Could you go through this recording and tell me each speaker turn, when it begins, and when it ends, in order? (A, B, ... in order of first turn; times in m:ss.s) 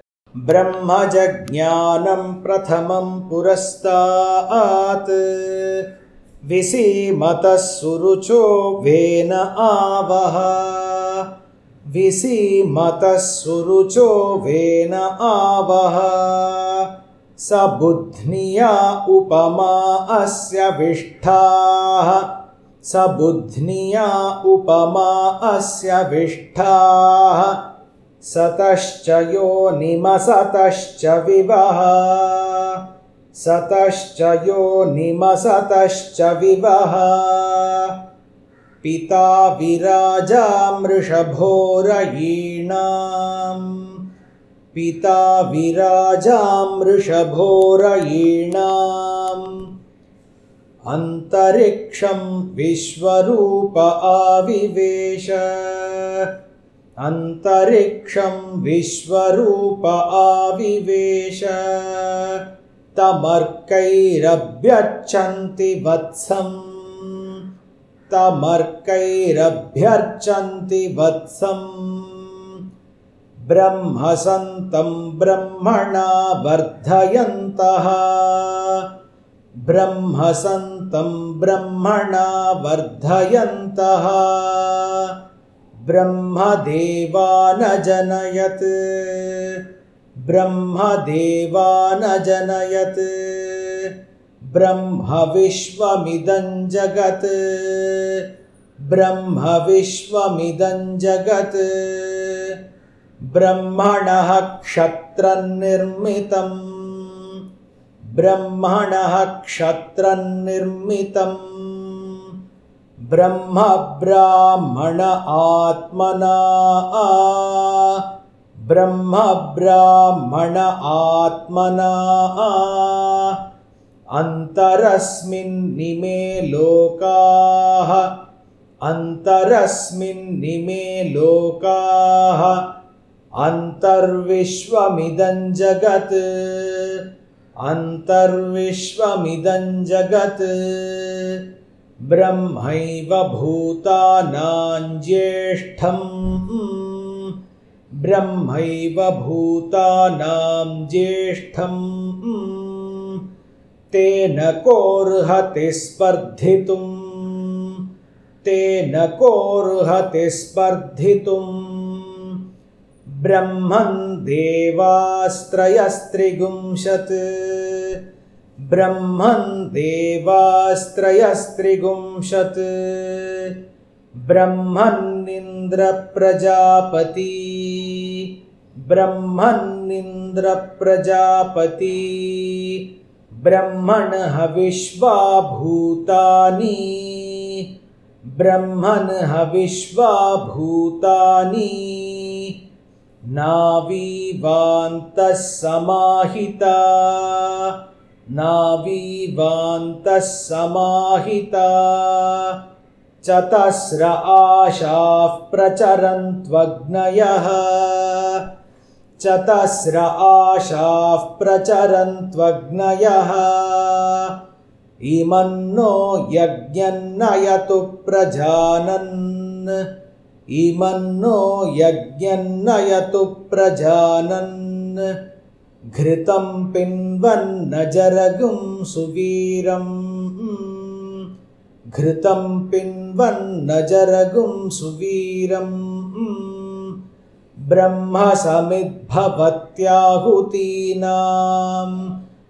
0:00.4-0:05.9 A
0:06.5-0:11.3 A
0:11.9-0:22.3 A
0:22.8-0:27.6 A
0:28.2-0:32.8 A
0:33.4-0:38.0 A
0:38.8-0:44.0 A
0:44.7-0:49.6 A
0:50.9-0:56.3 A
0:57.0-1:02.4 A
1:02.9-1:07.4 A
1:08.1-1:12.6 A
1:13.5-1:18.9 A
1:19.6-1:25.1 A
1:25.8-1:29.6 A
1:30.2-1:33.9 A
1:34.5-1:38.3 A
1:38.8-1:42.6 A
1:43.3-1:47.4 A
1:48.1-1:52.3 A
1:53.1-1:58.0 A
1:58.6-2:03.4 A
2:04.1-2:08.2 A
2:08.8-2:12.6 A
2:13.4-2:17.0 A
2:17.6-2:21.4 A
2:22.0-2:27.4 A
2:28.0-2:33.2 A
2:33.9-2:37.8 A
2:38.4-2:42.4 A
2:43.1-2:48.0 A
2:48.6-2:53.6 A
2:54.2-3:02.9 A
3:03.4-3:07.7 A
3:08.3-3:12.6 A
3:13.3-3:17.8 A
3:18.3-3:22.6 A
3:23.2-3:28.4 A
3:29.2-3:34.3 A
3:35.0-3:39.9 A
3:40.5-3:45.2 A
3:45.9-3:51.3 A
3:51.9-3:57.0 A
3:57.7-4:02.1 A